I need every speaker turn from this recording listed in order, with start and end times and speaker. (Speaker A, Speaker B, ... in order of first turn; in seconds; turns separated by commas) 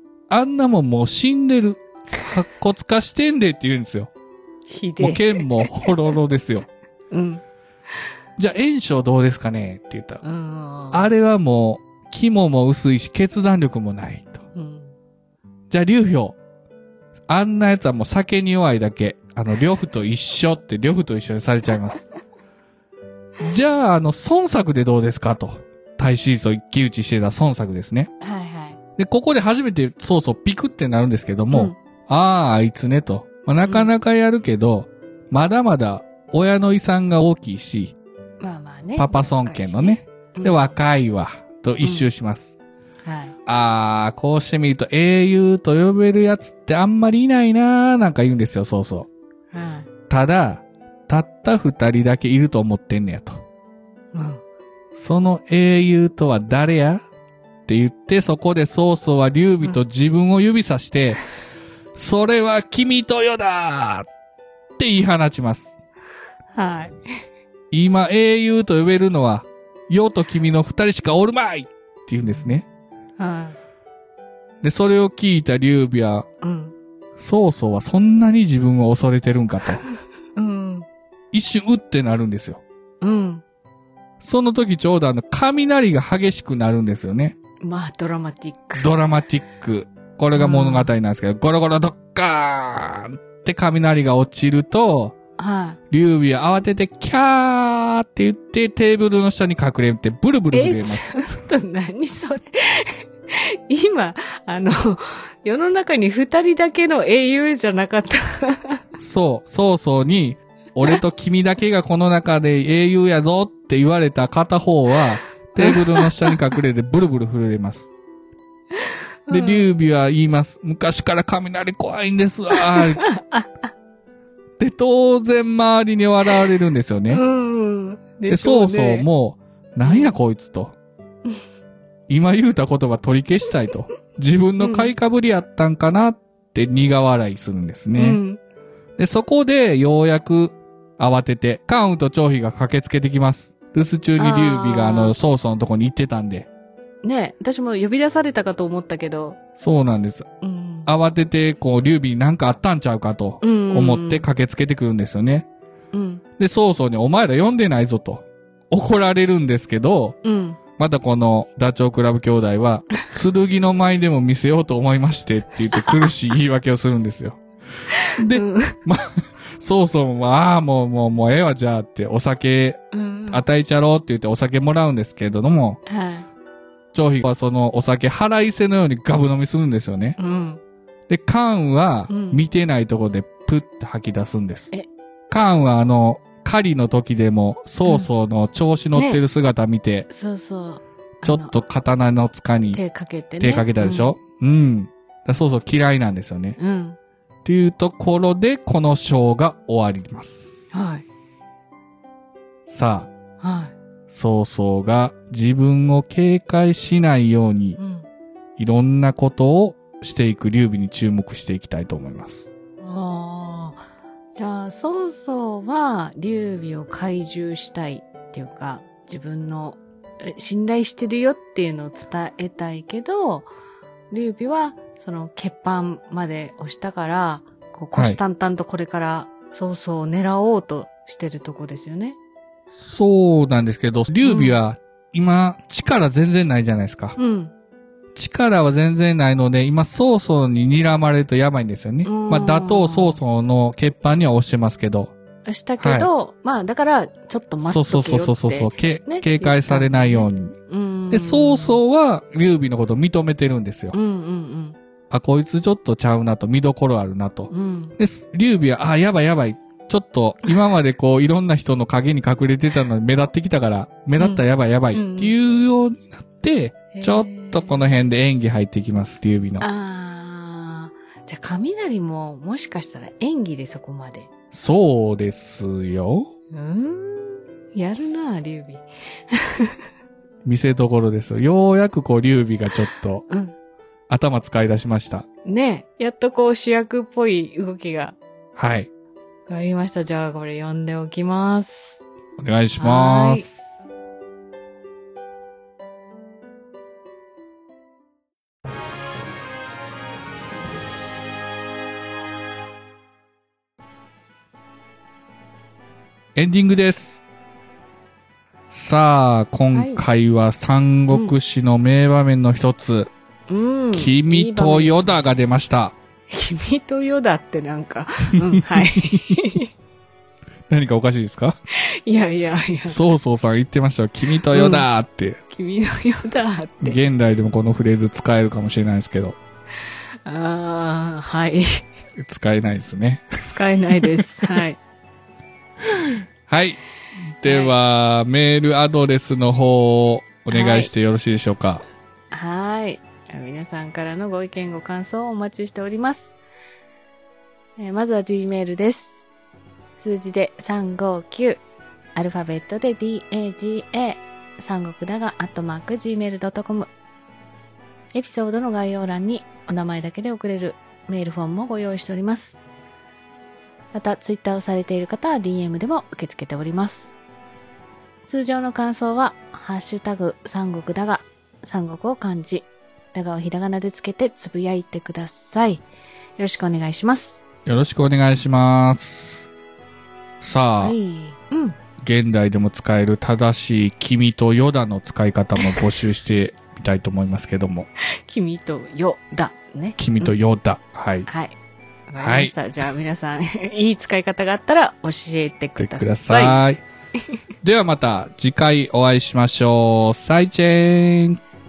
Speaker A: 0.3-4.1, Speaker B: 4.7-6.0, Speaker A: 5.0-6.7, Speaker B: 7.1-7.4, Speaker A: 8.4-10.2, Speaker B: 10.2-11.1, Speaker A: 10.9-14.4, Speaker B: 14.6-14.9, Speaker A: 15.7-16.4, Speaker A: 17.3-22.1, Speaker A: 23.4-28.1, Speaker B: 28.2-28.8, Speaker A: 29.0-38.0, Speaker B: 33.7-33.9, Speaker B: 38.4-40.7, Speaker A: 39.0-42.5, Speaker B: 41.8-42.1, Speaker B: 43.0-43.3, Speaker A: 43.5-49.1, Speaker B: 49.5-49.9, Speaker A: 50.1-53.4, Speaker B: 54.1-54.4, Speaker A: 55.0-57.0, Speaker A: 57.7-61.2, Speaker A: 62.0-64.1, Speaker A: 64.8-65.8, Speaker B: 66.5-67.0, Speaker A: 67.7-72.7, Speaker B: 73.2-73.6, Speaker A: 74.6-76.3, Speaker B: 76.4-76.7, Speaker A: 77.2-79.8, Speaker B: 80.4-80.9, Speaker A: 81.3-82.6, Speaker B: 83.0-83.4, Speaker A: 84.2-87.4, Speaker B: 87.6-89.0, Speaker A: 88.8-95.2, Speaker B: 90.3-90.9, Speaker B: 95.4-95.8, Speaker A: 95.9-101.1, Speaker B: 100.5-108.8, Speaker A: 109.0-117.9, Speaker B: 115.6-116.1, Speaker B: 119.3-119.7, Speaker A: 119.3-123.0, Speaker B: 122.5-123.5, Speaker A: 124.6-127.2, Speaker B: 127.1-129.1, Speaker A: 128.3-130.8, Speaker B: 129.8-130.2, Speaker A: 132.1-138.2, Speaker B: 134.6-134.9, Speaker B: 137.9-138.4, Speaker A: 139.0-146.5, Speaker B: 144.2-145.2, Speaker B: 147.0-149.4, Speaker A: 149.6-150.3, Speaker B: 150.4-150.9, Speaker A: 150.9-155.5, Speaker B: 153.4-154.3, Speaker B: 155.9-156.2, Speaker A: 156.4-160.2, Speaker B: 160.2-160.6, Speaker A: 160.8-167.4, Speaker A: 168.2-175.8, Speaker B: 168.3-168.8, Speaker B: 172.9-173.5, Speaker B: 175.9-176.3, Speaker A: 176.9-180.2, Speaker B: 180.2-180.6, Speaker A: 181.1-184.7, Speaker B: 182.1-182.4, Speaker A: 185.3-190.1, Speaker B: 188.9-189.2, Speaker B: 190.1-191.6, Speaker A: 191.2-192.8, Speaker B: 192.7-194.1, Speaker A: 193.4-196.6, Speaker B: 196.6-197.0, Speaker A: 197.4-200.7, Speaker B: 200.7-201.0, Speaker A: 202.7-203.1, Speaker B: 203.4-203.7, Speaker A: 204.1-207.8, Speaker B: 207.8-208.1, Speaker A: 208.6-212.5, Speaker B: 212.8-213.8, Speaker B: 214.3-223.5, Speaker B: 224.1-232.2, Speaker A: 232.7-237.2, Speaker B: 234.2-234.6, Speaker B: 237.2-237.5, Speaker A: 238.2-245.1, Speaker B: 242.1-243.2, Speaker B: 245.4-251.8, Speaker A: 245.8-246.1, Speaker A: 247.6-250.6, Speaker A: 251.1-254.0, Speaker B: 253.9-254.8, Speaker A: 255.1-269.7, Speaker B: 257.5-257.9, Speaker B: 264.2-265.4, Speaker B: 266.9-267.9, Speaker B: 269.6-274.3, Speaker A: 274.5-276.3, Speaker B: 276.5-279.8, Speaker A: 280.4-283.2, Speaker B: 283.3-283.5, Speaker A: 284.1-285.3, Speaker B: 285.4-288.2, Speaker A: 288.6-288.9, Speaker B: 289.5-292.0, Speaker A: 292.4-293.7, Speaker B: 292.8-293.5, Speaker A: 306.4-307.2, Speaker A: 308.7-313.1, Speaker B: 309.7-310.0, Speaker B: 311.1-311.4, Speaker B: 313.5-315.2, Speaker A: 313.9-315.9, Speaker B: 316.3-319.7, Speaker A: 318.6-319.2, Speaker A: 320.7-321.6, Speaker B: 322.1-323.0, Speaker A: 322.9-325.4, Speaker B: 324.5-324.9, Speaker B: 325.5-327.0, Speaker A: 326.8-329.4, Speaker B: 330.2-331.9, Speaker A: 332.2-333.3, Speaker B: 333.6-334.8, Speaker A: 336.5-336.8, Speaker A: 337.4-341.8, Speaker B: 337.4-337.7, Speaker B: 340.5-340.9, Speaker B: 342.3-346.4, Speaker B: 347.8-349.2, Speaker B: 350.0-351.6, Speaker B: 352.1-356.9, Speaker B: 358.1-362.6, Speaker B: 363.9-367.1, Speaker B: 368.3-375.9, Speaker B: 376.4-377.4, Speaker A: 377.7-379.5, Speaker A: 380.4-380.9, Speaker B: 380.8-381.8, Speaker A: 382.0-387.9, Speaker B: 388.3-390.4, Speaker A: 390.0-391.3, Speaker B: 391.3-391.6, Speaker B: 392.1-396.7, Speaker A: 392.2-392.6, Speaker A: 395.8-396.8, Speaker A: 397.6-401.4